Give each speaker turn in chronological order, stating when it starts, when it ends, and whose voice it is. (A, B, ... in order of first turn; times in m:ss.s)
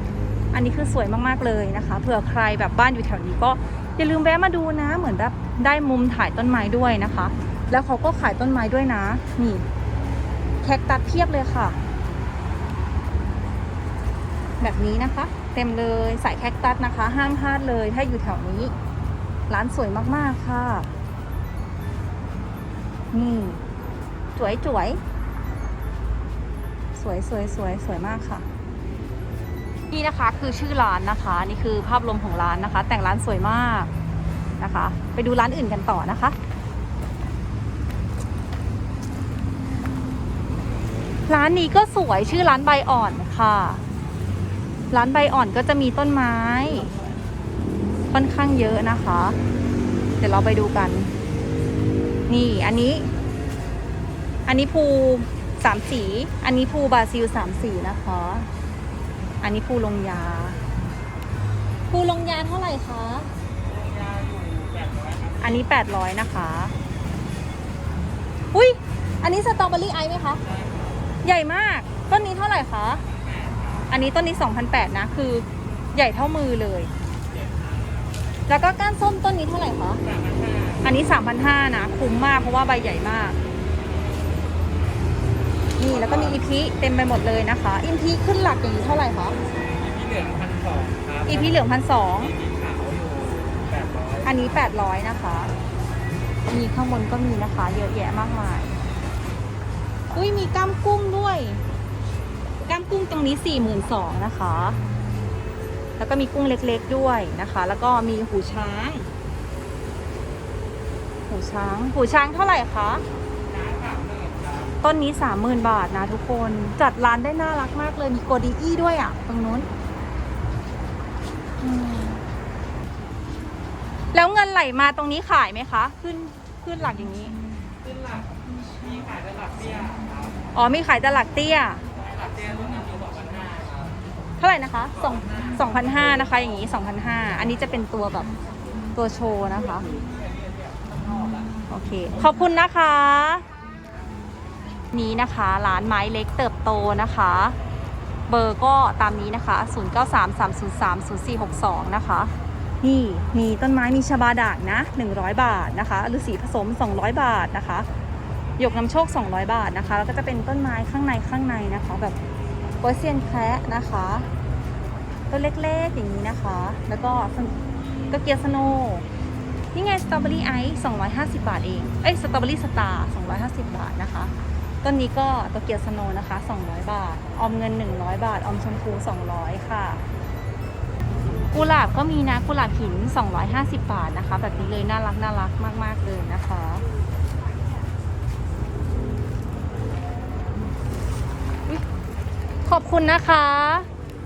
0:00.5-0:09.7 A
0:10.6-0:11.8 A
0:14.6-0:18.8 A
0:19.5-0:20.9 A
0:23.1-0:23.6 A
0:24.4-0:25.0 A
0:27.0-0:28.5 A
0:29.9-0:33.9 A
0:34.6-0:36.4 A
0:41.3-0:43.8 A
0:44.9-0:46.9 A
0:48.1-0:49.4 A
0:50.2-0:51.1 A
0:52.3-0:53.1 A
0:54.5-0:58.5 A
0:59.4-1:00.6 A
1:01.9-1:03.3 A
1:03.8-1:05.4 B
1:05.4-1:06.8 A
1:08.5-1:10.4 A
1:11.2-1:13.0 A
1:13.9-1:16.9 A
1:18.5-1:20.1 A
1:20.8-1:23.4 A
1:25.8-1:29.4 A
1:29.9-1:31.2 B
1:31.2-1:32.4 A
1:32.6-1:34.2 B
1:34.2-1:35.5 A
1:36.5-1:38.8 A
1:40.1-1:41.6 A
1:42.7-1:44.8 A
1:46.0-1:49.1 A
1:51.3-1:53.0 A
1:53.5-1:54.6 B
1:54.8-1:59.7 A
2:01.6-2:02.2 A
2:04.1-2:07.4 A
2:08.8-2:10.0 B
2:10.6-2:11.8 A
2:12.2-2:13.9 B
2:14.4-2:18.3 A
2:18.9-2:19.9 A
2:21.7-2:23.4 A
2:24.9-2:27.6 A
2:28.3-2:37.9 A
2:38.6-2:42.2 A
2:42.8-2:44.3 A
2:45.3-2:47.6 A
2:48.1-2:49.0 A
2:49.7-2:54.3 A
2:54.8-3:00.0 A
3:01.5-3:06.8 A
3:12.6-3:13.9 A